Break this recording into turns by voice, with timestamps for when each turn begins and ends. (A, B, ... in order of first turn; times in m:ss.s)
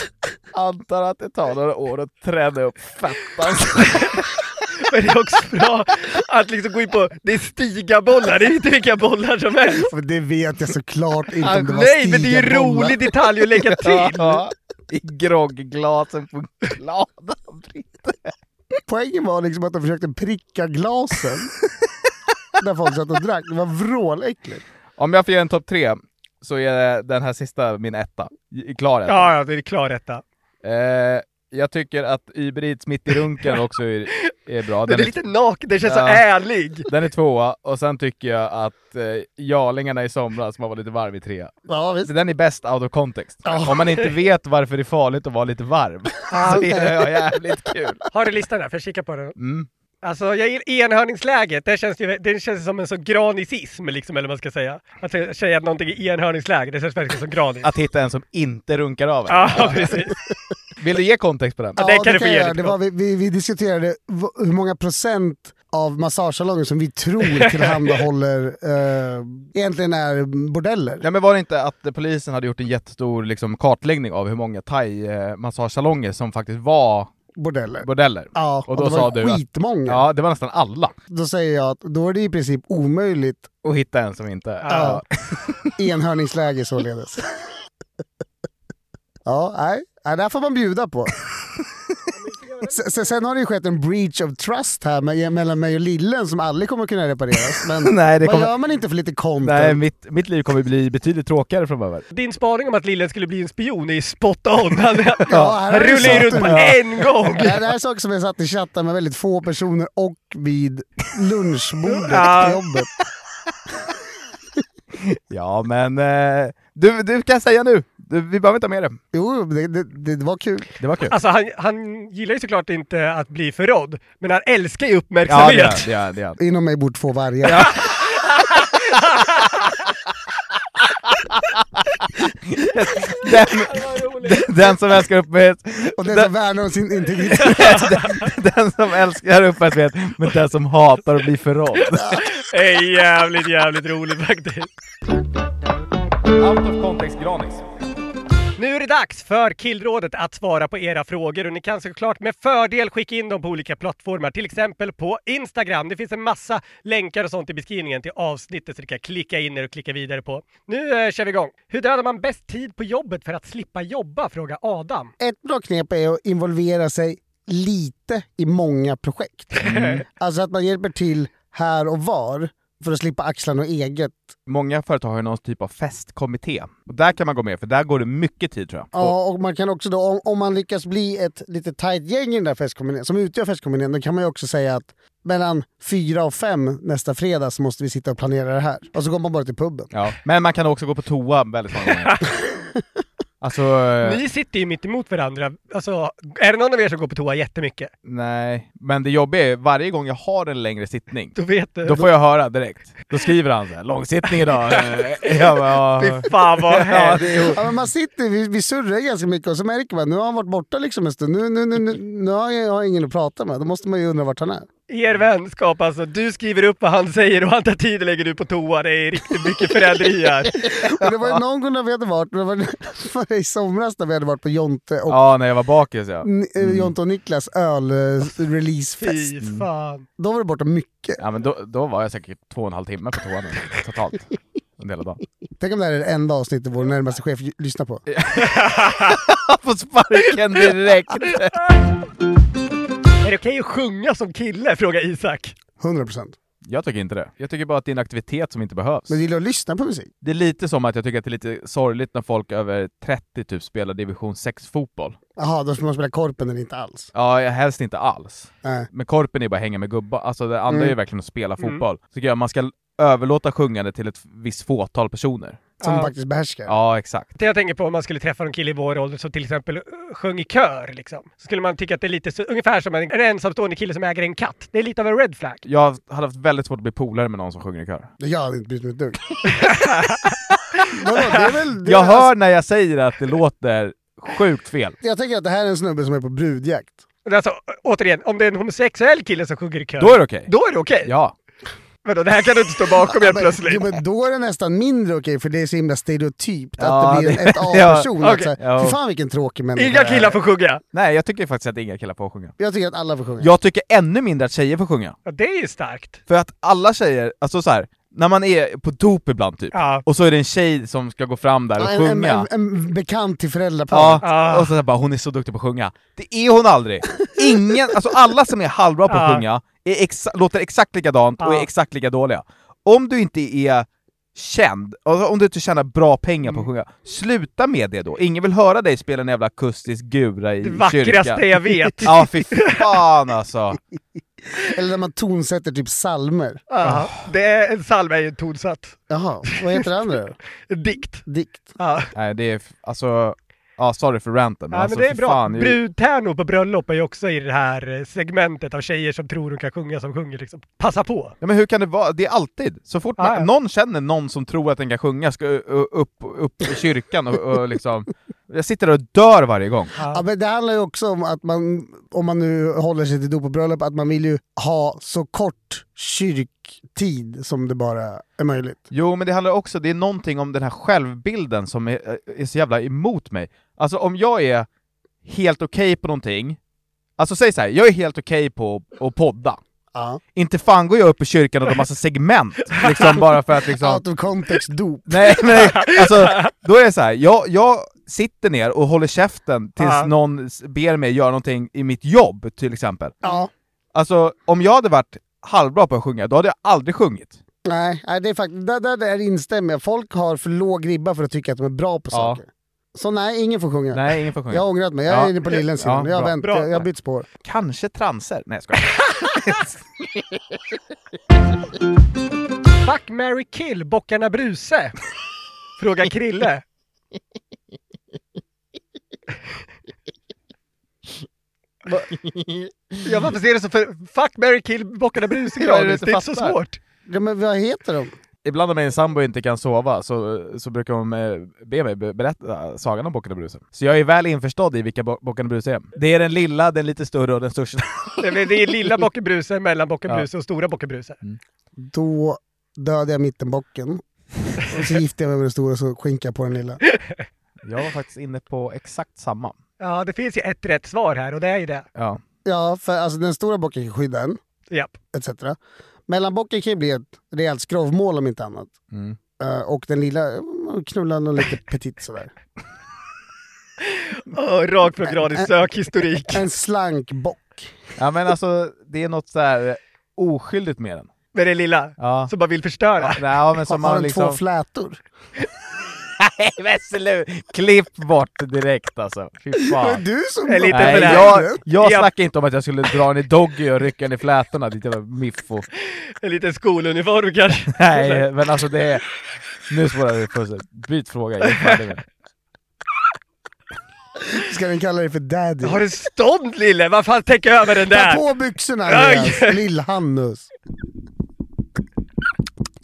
0:00.5-0:04.3 A
0:04.9-0:09.8 B
0:09.8-0:13.1 C
0:11.5-0:14.4 B
0:13.8-0:18.3 A
0:18.8-0:21.5 C
0:22.6-0:24.6 C
0:25.0-0:29.3 A
0:29.0-0:30.2 B
0:30.6-0:35.1 A
0:34.8-0:36.9 B
0:35.8-0:36.2 A
0:36.9-0:48.0 A
0:41.7-0:42.1 C
0:43.4-0:43.8 C
0:46.3-0:46.7 B
0:46.4-0:46.9 C
0:48.1-0:49.4 B
0:49.4-0:49.7 A
0:50.0-0:57.7 B
0:57.6-1:00.0 A
0:59.3-1:00.2 B
1:00.8-1:01.8 A
1:01.8-1:11.0 C
1:01.8-1:02.7 B
1:11.0-1:17.1 A
1:17.4-1:20.0 C
1:17.8-1:20.9 A
1:21.1-1:23.5 C
1:23.6-1:25.7 A
1:24.6-1:25.0 B
1:24.7-1:25.0 C
1:25.8-1:27.3 C
1:29.2-1:31.1 C
1:32.1-1:33.1 B
1:32.7-1:39.8 C
1:37.8-1:38.5 A
1:39.4-1:42.0 A
1:42.1-1:47.5 B
1:45.3-1:46.7 C
1:45.3-1:46.8 A
1:47.3-1:52.9 C
1:51.9-1:52.6 B
1:55.1-1:59.0 A
1:59.1-2:00.7 C
2:00.8-2:01.1 A
2:01.1-2:05.8 B
2:05.3-2:06.4 A
2:06.4-2:07.7 C
2:07.4-2:08.3 A
2:08.9-2:09.4 B
2:12.5-2:16.3 A
2:13.7-2:14.7 B
2:16.0-2:17.8 C
2:17.3-2:18.0 B
2:17.4-2:22.2 A
2:21.9-2:24.7 B
2:26.4-2:27.6 A
2:28.6-2:45.1 B
2:45.2-2:54.3 C
2:49.6-2:50.0 B
2:49.6-2:50.0 A
2:54.5-2:59.1 A
2:58.9-3:09.9 C
3:09.9-3:12.2 A
3:11.9-3:12.1 B
3:13.4-3:14.2 A
3:14.0-3:17.9 B
3:18.0-3:27.6 A
3:21.4-3:22.0 B
3:24.7-3:25.0 B
3:26.0-3:27.5 B
3:27.5-3:34.7 C
3:34.9-3:40.6 B
3:40.6-3:45.2 C
3:45.1-3:46.9 A
3:46.2-3:49.3 C
3:49.0-3:50.0 B
3:50.2-3:51.2 C
3:51.2-3:55.2 A
3:55.6-3:58.0 C
3:58.1-4:01.6 A
3:58.4-3:59.2 B
4:03.2-4:05.5 B
4:05.8-4:06.4 C
4:06.6-4:09.2 A
4:09.1-4:10.1 C
4:10.2-4:15.2 A
4:15.4-4:17.1 C
4:17.1-4:25.7 A
4:20.7-4:20.9 C
4:25.8-4:26.1 B
4:25.8-4:26.7 C
4:26.6-4:27.3 A
4:27.4-4:35.6 B
4:35.6-4:38.1 A
4:38.2-4:39.3 C
4:39.6-4:40.3 B
4:40.9-4:42.3 C
4:41.8-4:45.0 A
4:45.0-4:47.0 C
4:47.2-4:51.1 B
4:50.0-4:50.5 A
4:51.0-4:51.3 A
4:52.0-4:53.9 B
4:53.1-5:00.2 C
4:56.8-4:59.0 A
4:58.2-4:58.5 B
4:59.8-5:00.8 B
5:00.9-5:02.5 A
5:02.6-5:03.5 C
5:03.4-5:05.2 A
5:05.3-5:06.2 B
5:06.3-5:12.5 A
5:09.7-5:10.0 B
5:11.8-5:14.2 C
5:13.9-5:31.4 A
5:14.2-5:14.7 B
5:19.1-5:19.4 B
5:21.4-5:21.7 B
5:30.6-5:32.8 B
5:32.0-5:33.8 A
5:34.6-5:36.7 C
5:36.7-5:39.9 B
5:36.8-5:37.2 A
5:39.1-5:40.4 C
5:40.7-5:41.2 B
5:41.2-5:41.8 C
5:41.8-5:42.1 B
5:42.1-5:45.8 A
5:44.7-5:51.3 B
5:51.4-5:59.9 A
5:53.2-5:53.5 B
6:00.0-6:00.2 B
6:00.0-6:08.8 C
6:08.9-6:14.7 A
6:15.2-6:16.6 A
6:17.2-6:19.6 A
6:19.9-6:20.2 C
6:20.3-6:24.0 A
6:22.8-6:23.0 B
6:23.8-6:25.6 C
6:25.1-6:33.1 A
6:25.6-6:26.5 B
6:29.8-6:30.1 B
6:33.2-6:33.5 C
6:33.9-6:37.4 A
6:37.6-6:47.3 C
6:42.1-6:42.4 A
6:43.9-6:46.3 A
6:46.4-6:46.8 B
6:47.4-6:49.8 A
6:52.8-6:54.9 B
6:55.8-6:56.6 B
7:03.0-7:06.8 B
7:05.5-7:06.6 A
7:07.0-7:08.1 C
7:08.4-7:18.2 A
7:18.2-7:21.2 B
7:21.8-7:24.0 C
7:24.7-7:26.8 C
7:27.6-7:29.6 A
7:29.8-7:31.8 B
7:31.9-7:32.2 A
7:32.4-7:34.4 C
7:34.7-7:35.0 B
7:35.1-7:38.7 C
7:38.9-7:39.2 A
7:39.4-7:42.3 C
7:43.9-7:46.4 B
7:46.3-7:47.8 C
7:48.0-7:51.1 A
7:51.3-7:53.2 B
7:52.0-7:52.3 A
7:53.0-7:54.4 A
7:53.7-7:55.0 C
7:56.2-8:00.0 A
7:59.6-8:01.6 C
8:00.5-8:02.1 B
8:00.7-8:05.7 A
8:05.9-8:08.2 B
8:07.7-8:09.0 A
8:09.7-8:12.0 A
8:14.3-8:15.8 C
8:15.6-8:18.2 B
8:17.9-8:20.5 C
8:18.8-8:19.6 B